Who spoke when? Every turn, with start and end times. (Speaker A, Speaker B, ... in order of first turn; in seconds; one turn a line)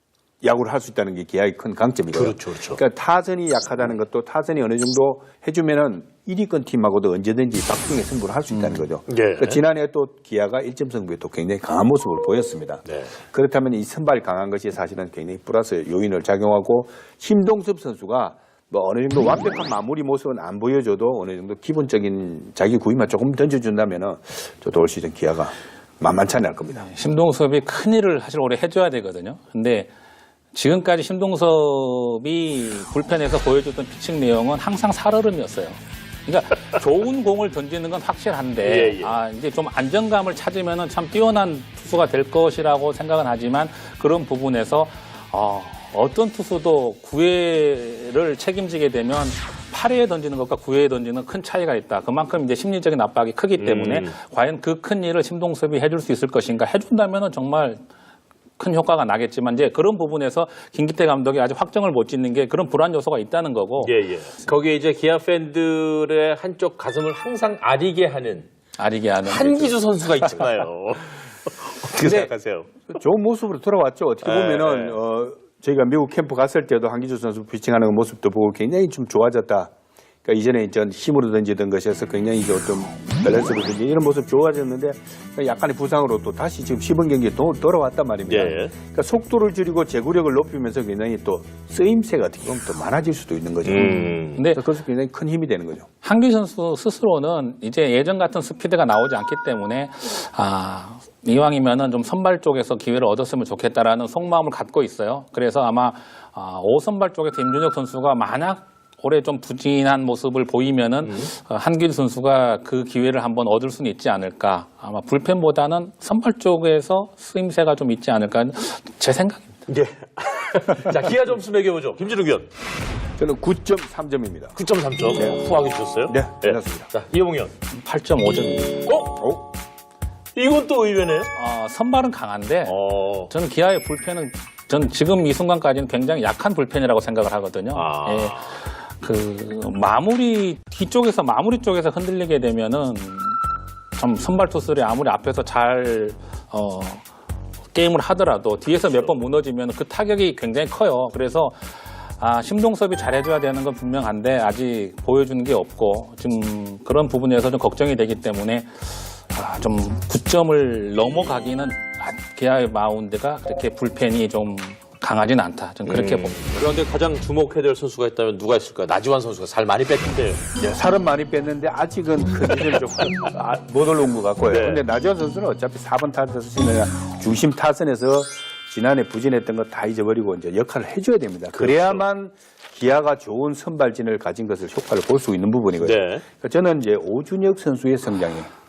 Speaker A: 0.4-26.9
Speaker B: 2.1-2.8
Speaker C: 8.5-8.8
Speaker B: 9.1-9.6
Speaker B: 12.8-13.1
Speaker C: 26.8-29.9
Speaker C: 30.5-57.8
Speaker B: 38.6-39.1
Speaker B: 53.6-54.1
Speaker C: 58.6-63.9
Speaker B: 63.8-68.5
Speaker C: 68.8-70.3
Speaker B: 69.2-72.7
Speaker C: 72.0-72.3
Speaker A: 72.9-79.7
Speaker B: 74.2-75.0
Speaker A: 80.2-95.9
Speaker B: 88.3-88.7
Speaker B: 93.6-94.4
Speaker C: 93.8-94.6
Speaker C: 96.0-119.5
Speaker B: 111.0-111.3
Speaker B: 119.7-122.5
Speaker A: 123.2-124.6
Speaker B: 124.5-127.5
Speaker A: 125.1-125.4
Speaker A: 126.1-126.9
Speaker C: 127.7-128.8
Speaker B: 128.9-129.1
Speaker A: 129.1-129.4
Speaker B: 130.3-131.3
Speaker C: 131.3-132.8
Speaker B: 132.7-133.3
Speaker C: 133.3-143.4
Speaker B: 137.7-138.6
Speaker C: 144.0-147.0
Speaker C: 147.7-166.4
Speaker B: 165.8-170.4
Speaker A: 170.6-188.5
Speaker B: 174.5-174.8
Speaker B: 181.5-182.0
Speaker B: 185.8-186.2